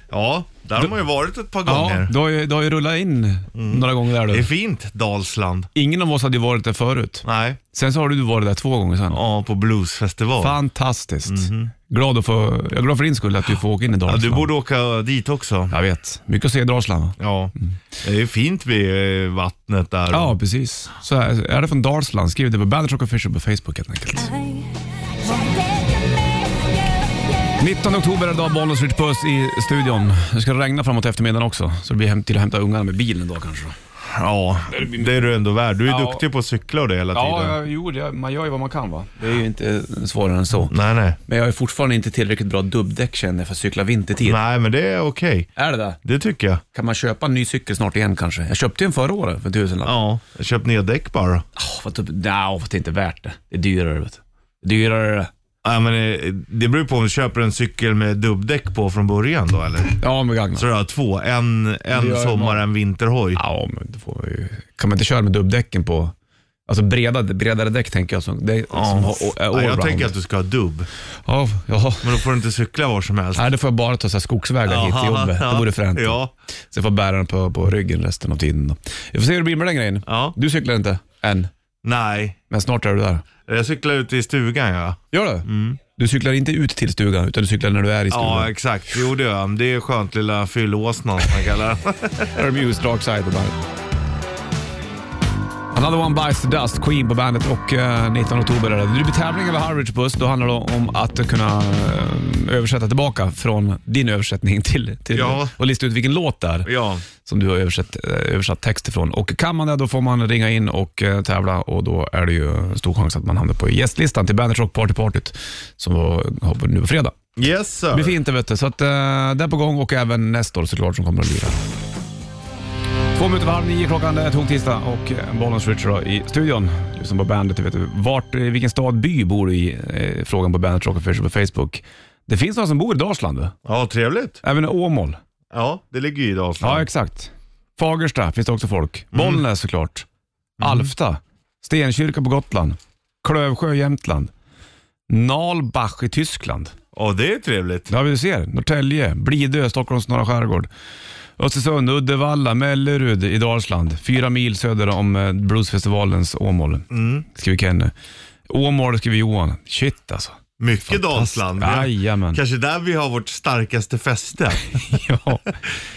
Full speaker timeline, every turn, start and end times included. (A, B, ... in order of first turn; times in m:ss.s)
0:00.1-0:02.1 A
0:01.6-0:04.5 B
0:03.6-0:05.7 A
0:05.8-0:09.2 B
0:07.2-0:07.6 A
0:09.1-0:10.6 A
0:10.4-0:14.5 B
0:11.3-0:11.7 A
0:14.1-0:15.7 A
0:15.7-0:17.2 B
0:17.2-0:20.3 A
0:20.1-0:24.4 B
0:27.6-0:33.8 B
0:34.1-0:37.6 A
0:34.7-0:35.1 B
0:35.9-0:36.2 B
0:37.1-0:40.7 B
0:40.6-0:41.2 A
0:41.3-0:44.4 B
0:44.2-0:45.5 A
0:45.6-0:46.0 B
0:46.0-0:46.6 A
0:46.7-0:49.9 B
0:49.9-0:51.4 A
0:51.6-0:55.3 B
0:55.6-1:00.0 A
1:00.0-1:00.6 B
1:00.6-1:03.4 A
1:01.9-1:02.6 B
1:03.4-1:06.1 B
1:06.7-1:10.1 B
1:08.7-1:10.9 A
1:11.3-1:12.2 B
1:12.0-1:13.5 A
1:13.4-1:16.2 B
1:14.6-1:16.3 A
1:16.7-1:21.5 B
1:20.1-1:20.4 A
1:21.8-1:22.4 A
1:22.5-1:23.2 B
1:23.5-1:25.8 A
1:25.1-1:28.5 B
1:28.1-1:32.4 A
1:32.3-1:33.6 B
1:35.7-1:57.2 B
1:45.1-1:45.6 A
1:46.7-1:47.0 A
1:57.4-1:58.2 A
1:57.9-2:01.6 B
2:03.2-2:13.5 B
2:13.6-2:14.4 A
2:14.4-2:15.2 B
2:15.5-2:16.9 A
2:16.6-2:20.1 B
2:19.1-2:19.4 A
2:20.6-2:20.9 A
2:20.6-2:24.3 B
2:25.1-2:26.7 B
2:26.9-2:27.9 A
2:27.9-2:30.7 B
2:31.4-2:37.9 B
2:36.9-2:37.3 A
2:38.5-2:42.4 B
2:40.6-2:45.0 A
2:44.8-2:45.5 B